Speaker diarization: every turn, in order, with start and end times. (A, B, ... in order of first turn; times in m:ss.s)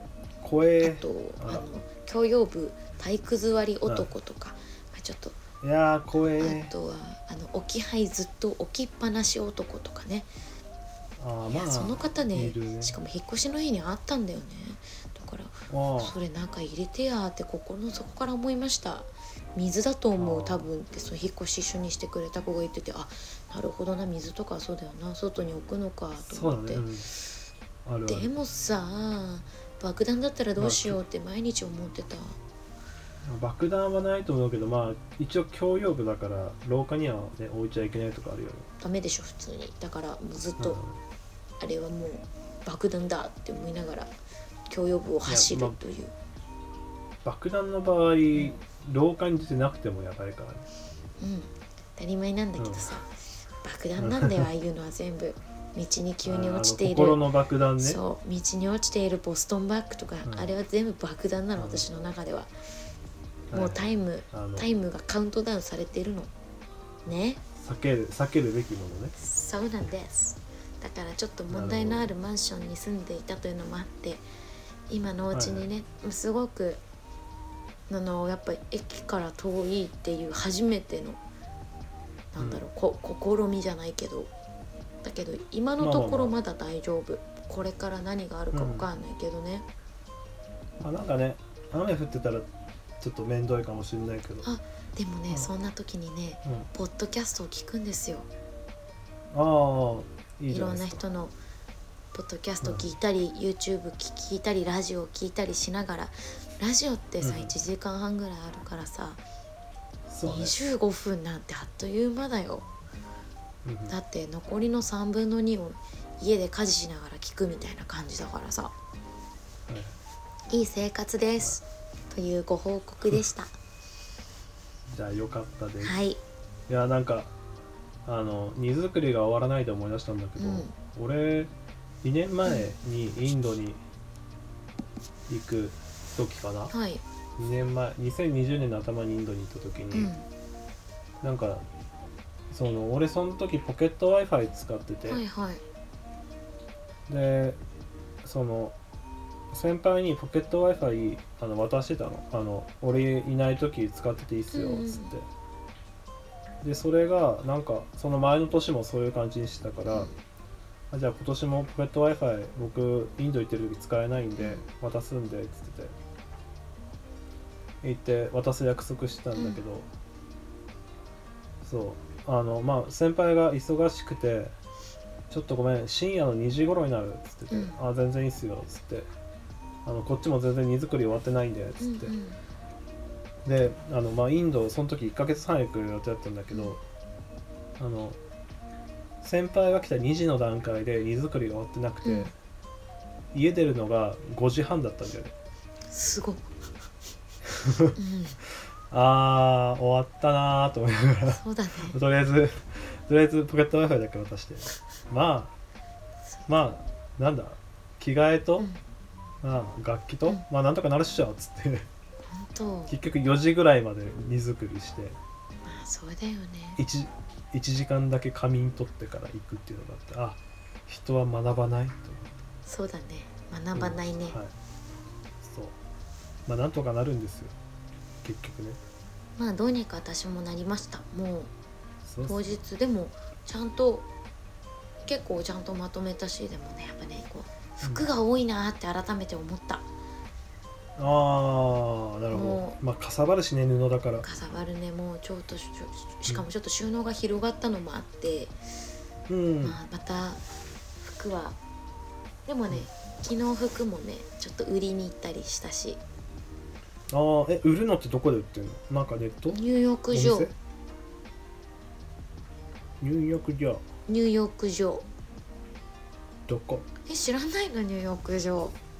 0:00.4-0:01.7 A
0:00.8-0:05.4 B
0:05.6-0:06.7 A
0:06.4-0:10.3 B
0:11.2-0:13.0 A
0:11.5-0:26.9 B
0:15.7-0:16.2 A
0:20.2-0:20.7 A
0:26.2-0:27.1 A
0:27.8-0:28.3 A
0:28.1-0:32.4 B
0:30.6-0:31.0 A
0:33.2-0:38.7 A
0:38.8-0:40.8 B
0:40.6-0:41.0 A
0:41.6-0:44.1 B
0:44.7-0:46.1 B
0:45.2-0:45.8 A
0:47.2-0:50.6 A
0:51.2-0:53.1 B
0:52.6-0:52.9 A
0:53.6-0:57.2 B
0:54.0-0:54.5 A
0:56.2-0:58.0 A
0:57.8-1:02.5 B
1:00.2-1:00.5 A
1:01.6-1:01.9 A
1:03.5-1:04.7 A
1:03.5-1:06.3 B
1:07.0-1:07.4 B
1:07.6-1:09.1 A
1:09.2-1:14.2 B
1:11.5-1:12.1 A
1:14.9-1:16.8 B
1:15.3-1:15.7 A
1:17.9-1:21.2 B
1:22.3-1:24.3 B
1:22.4-1:22.6 A
1:25.0-1:29.6 B
1:25.8-1:26.4 A
1:28.5-1:28.9 A
1:30.8-1:32.5 A
1:33.0-1:34.4 A
1:34.4-1:38.3 B
1:39.3-1:41.0 A
1:40.5-1:41.3 B
1:42.1-1:49.2 B
1:42.6-1:42.9 A
1:47.2-1:47.5 A
1:50.1-1:50.5 A
1:50.2-1:52.7 B
1:53.6-1:53.9 A
1:53.9-1:58.7 B
1:59.7-1:59.9 A
2:00.5-2:03.5 B
2:04.9-2:06.0 A
2:05.8-2:06.2 B
2:06.7-2:07.3 A
2:08.0-2:11.5 A
2:10.4-2:10.7 B
2:12.0-2:13.8 A
2:15.3-2:16.7 A
2:16.7-2:17.0 B
2:17.4-2:20.1 A
2:19.9-2:20.2 B
2:21.2-2:21.6 A
2:22.5-2:25.2 A
2:25.1-2:25.6 B
2:27.1-2:27.6 A
2:28.2-2:28.8 A
2:29.5-2:35.3 A
2:34.5-2:35.1 B
2:36.6-2:40.1 A
2:40.9-2:45.9 A
2:44.4-2:44.7 B
2:47.8-2:49.9 A
2:49.3-2:49.6 B
2:51.6-2:54.5 A
2:55.3-2:59.1 A
2:57.5-2:57.8 B
2:59.8-3:02.1 A
3:01.8-3:02.4 B
3:03.4-3:06.8 A
3:06.5-3:06.8 B
3:07.8-3:08.2 A
3:09.2-3:12.3 A
3:12.0-3:12.3 B
3:13.3-3:15.3 A
3:15.9-3:16.5 B
3:17.5-3:17.9 A
3:17.9-3:18.4 B
3:18.9-3:25.5 A
3:21.3-3:22.0 B
3:26.3-3:26.6 B
3:26.5-3:28.7 A
3:29.4-3:31.9 A
3:32.2-3:32.9 B
3:32.9-3:35.2 A
3:35.6-3:36.8 B
3:36.8-3:42.4 A
3:42.6-3:44.4 B
3:43.8-3:44.5 A
3:45.4-3:45.8 A
3:46.4-3:47.6 A
3:48.2-3:48.8 A
3:49.4-3:51.5 B
3:52.0-3:52.6 A
3:52.2-3:54.1 B
3:55.0-3:59.9 B
3:57.8-3:58.1 A
4:01.0-4:04.2 A
4:02.3-4:02.8 B
4:04.2-4:08.6 B
4:09.3-4:09.8 A
4:09.6-4:10.4 B
4:11.0-4:11.6 B
4:12.4-4:16.0 B
4:17.1-4:20.5 A
4:19.5-4:20.5 B
4:23.0-4:23.8 A
4:24.1-4:25.0 B
4:26.5-4:26.8 A
4:27.0-4:28.8 B